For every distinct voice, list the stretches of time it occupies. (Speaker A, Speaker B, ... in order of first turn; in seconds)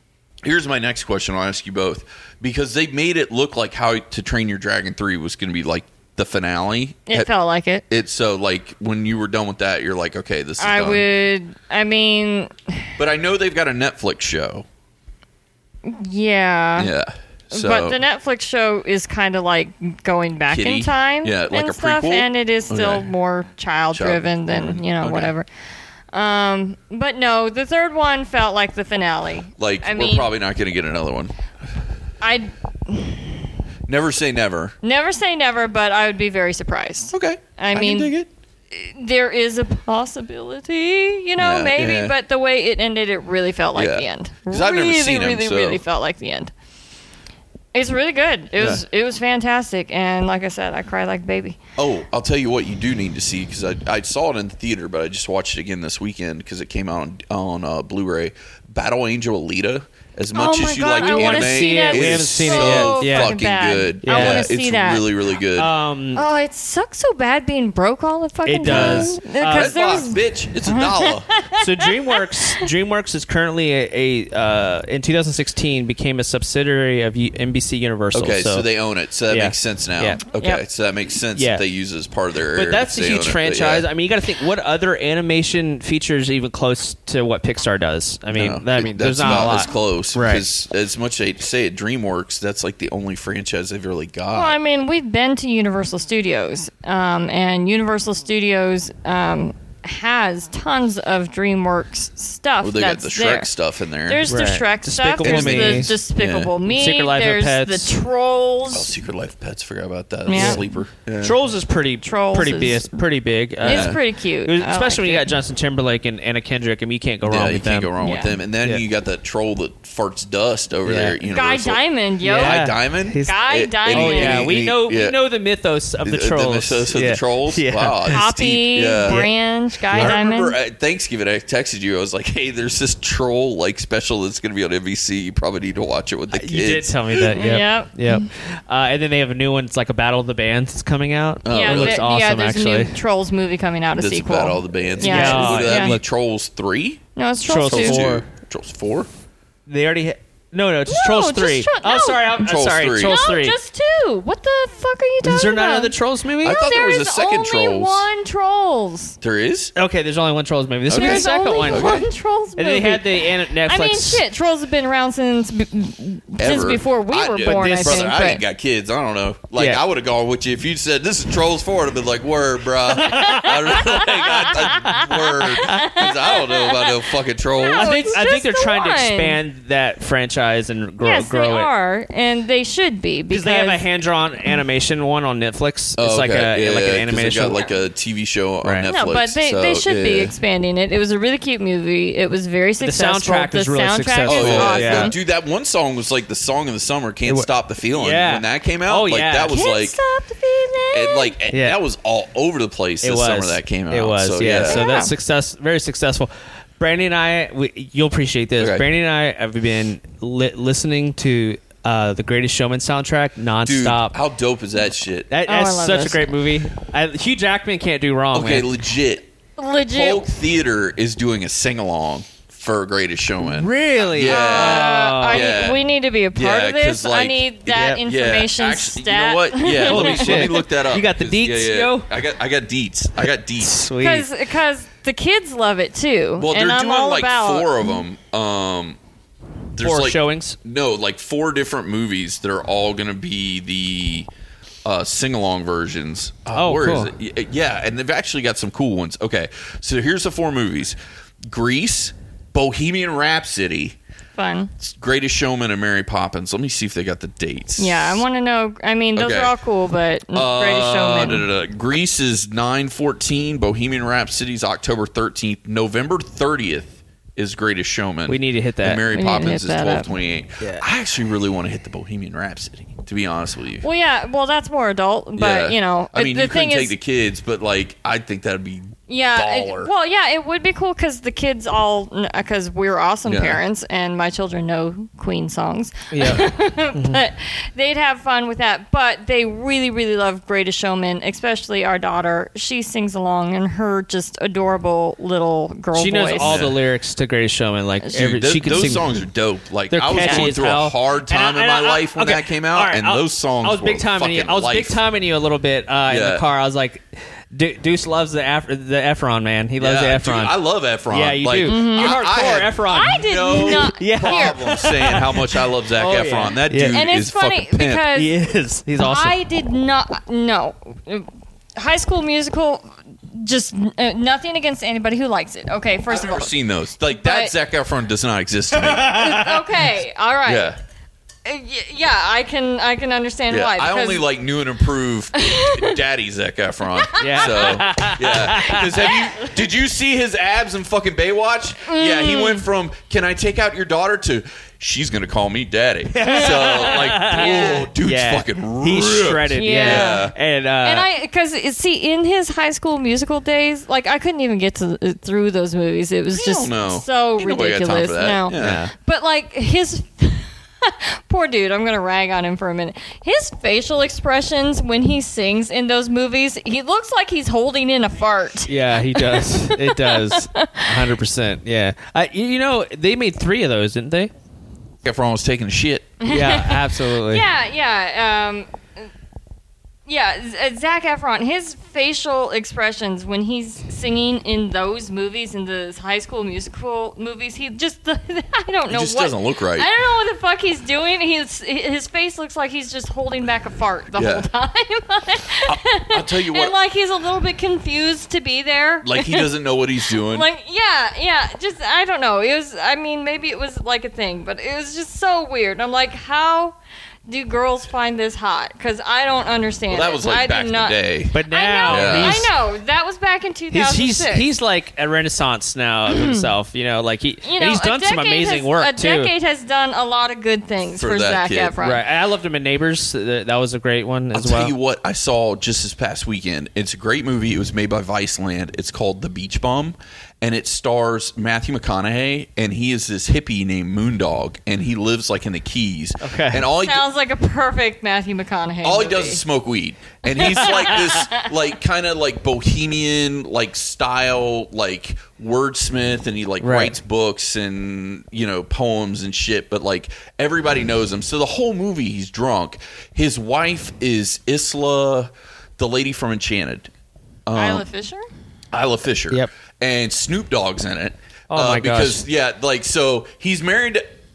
Speaker A: 0.4-7.3, 7.9-11.1, 13.0-14.7, 16.8-18.0, 20.5-23.1, 23.9-25.3, 29.6-31.3, 33.9-34.8, 37.1-38.3, 41.4-42.1, 43.8-45.8, 48.6-48.8, 51.8-65.7, 68.7-71.3, 78.1-83.9, 88.3-94.6, 102.6-104.3, 105.2-106.5, 108.7-111.4, 113.7-114.0, 117.2-121.8, 122.4-125.2, 126.0-129.2, 129.9-137.4, 141.4-142.0, 144.0-147.0, 147.7-149.1, 152.4-153.2, 156.4-158.1, 159.2-159.7, 160.9-162.1, 166.4-178.2, 186.0-190.3, 194.3-200.0, 200.9-204.9, 208.6-208.8, 213.6-215.3, 218.3-219.3, 219.9-233.8, 236.4-239.0, 239.8-244.3, 244.8-251.0, 251.5-254.0, 254.8-258.2, 259.2-259.5, 260.3-273.9, 275.4-279.9, 283.3-283.6, 296.4-296.8, 298.1-305.0, 306.1-306.4, 309.8-318.1, 326.1-329.3, 330.5-330.8, 333.5-350.3, 356.3-358.8, 375.0-376.1, 388.9-389.9, 394.1-394.5, 395.6-396.7, 399.0-400.5, 409.9-411.3, 411.9-412.5, 420.9-421.8, 424.3-437.1, 438.8-456.9, 457.5-457.9, 458.7-464.1
Speaker B: 7.1-7.8, 10.6-12.9, 15.8-16.9, 17.5-25.5, 26.1-30.3, 32.2-33.5, 34.8-38.1, 38.7-46.5, 47.7-51.6, 60.3-65.1, 66.2-72.7, 80.4-80.6, 94.3-103.5, 104.1-108.9, 110.3-110.8, 112.0-112.9, 113.6-115.3, 118.0-118.4, 121.3-124.6, 128.1-130.6, 137.3-138.3, 141.5-145.9, 147.2-148.0, 150.9-152.4, 153.0-159.2, 160.9-168.4, 173.1-177.1, 177.6-179.4, 181.0-183.8, 188.9-195.2, 199.5-201.4, 204.7-205.1, 215.5-216.4, 219.6-220.3, 224.2-230.7, 234.0-238.0, 254.4-254.7, 257.8-261.5, 269.1-270.1, 273.8-276.9, 279.1-296.6, 300.2-300.5, 311.6-312.2, 312.9-314.9, 316.9-318.4, 319.0-326.5, 327.1-327.5, 329.0-330.8, 331.4-334.3, 335.4-336.0, 336.9-337.8, 338.7-339.3, 341.9-342.6, 346.2-347.9, 349.6-350.3, 350.8-371.1, 376.2-379.1, 380.1-399.5, 400.1-406.8, 407.3-414.5, 416.1-416.5, 417.4-422.0, 436.8-439.4, 440.3-441.5, 457.6-458.2
Speaker C: 61.0-63.4, 64.0-64.5, 65.6-66.2, 68.5-69.8, 71.6-78.7, 79.3-80.2, 81.3-81.6, 82.5-90.4, 104.3-106.0, 106.7-108.0, 110.3-110.6, 111.2-117.9, 120.9-121.2, 122.2-123.4, 123.9-128.2, 129.1-129.3, 136.3-142.9, 145.0-146.0, 147.4-148.2, 149.7-153.6, 155.2-156.7, 159.8-162.0, 162.6-164.2, 167.4-168.1, 169.6-169.8, 173.0-175.8, 177.7-181.7, 183.3-187.6, 188.6-188.9, 192.8-195.1, 197.3-199.6, 201.5-201.8, 203.0-214.2, 215.3-218.7, 223.4-225.5, 227.7-228.0, 229.8-232.1, 233.6-234.3, 239.8-240.6, 246.5-247.1, 268.3-269.1, 286.1-287.2, 295.9-299.1, 299.9-310.6, 311.1-317.0, 318.1-319.3, 328.8-329.6, 337.2-339.2, 346.1-351.1, 358.6-358.9, 368.7-374.3, 376.3-377.4, 411.3-412.5, 413.7-419.3, 421.8-424.7, 436.2-436.6, 446.6-446.9, 461.5-462.2